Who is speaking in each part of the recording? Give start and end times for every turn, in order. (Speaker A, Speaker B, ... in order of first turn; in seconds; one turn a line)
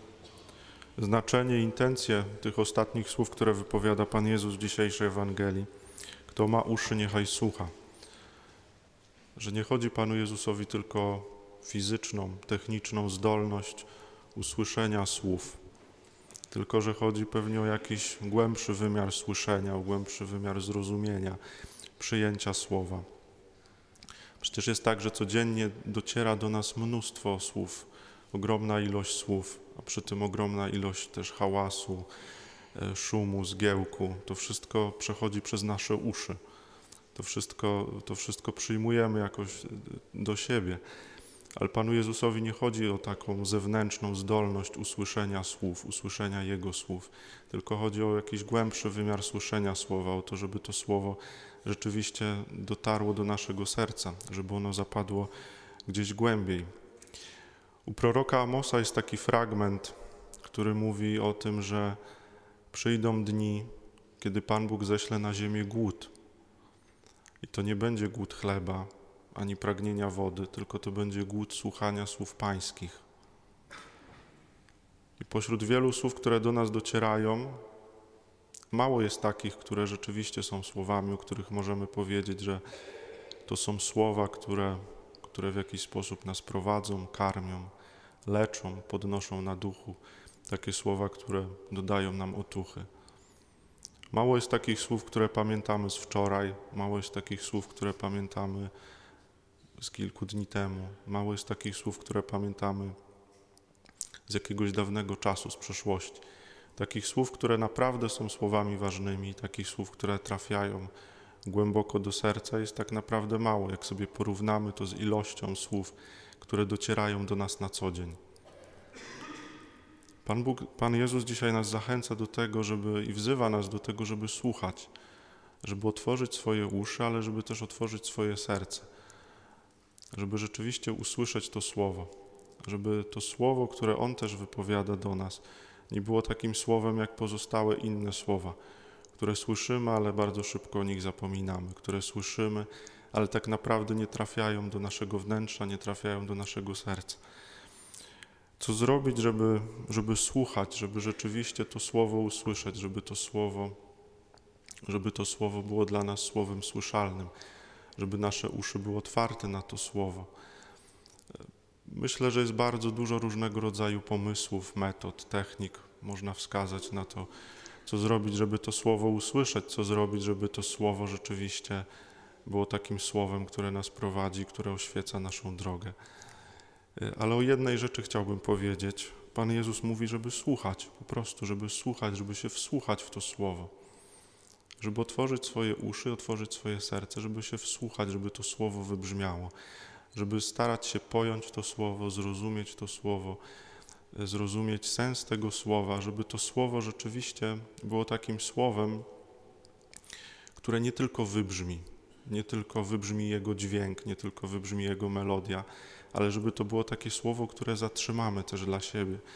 Speaker A: 1.0-5.7
Speaker A: 6.3-7.7
Speaker A: 9.4-15.6
Speaker A: 16.5-21.4
Speaker A: 22.0-23.1
Speaker A: 24.4-32.1
Speaker A: 32.8-36.4
Speaker A: 37.1-40.8
Speaker A: 41.6-55.3
Speaker A: 55.9-56.7
Speaker A: 57.9-62.0
Speaker A: 62.7-66.1
Speaker A: 67.4-73.0
Speaker A: 75.2-77.6
Speaker A: 78.7-82.6
Speaker A: 83.5-87.7
Speaker A: 88.3-92.9
Speaker A: 94.1-98.7
Speaker A: 99.8-103.0
Speaker A: 104.3-106.2
Speaker A: 106.8-110.9
Speaker A: 111.5-118.2
Speaker A: 120.2-124.9
Speaker A: 125.6-128.9
Speaker A: 130.1-138.6
Speaker A: 139.1-147.2
Speaker A: 148.6-153.8
Speaker A: 154.9-157.3
Speaker A: 158.0-160.3
Speaker A: 161.9-167.3
Speaker A: 167.9-171.9
Speaker A: 172.4-176.0
Speaker A: 177.0-183.7
Speaker A: 184.8-189.5
Speaker A: 190.1-193.4
Speaker A: 194.1-199.1
Speaker A: 200.6-209.2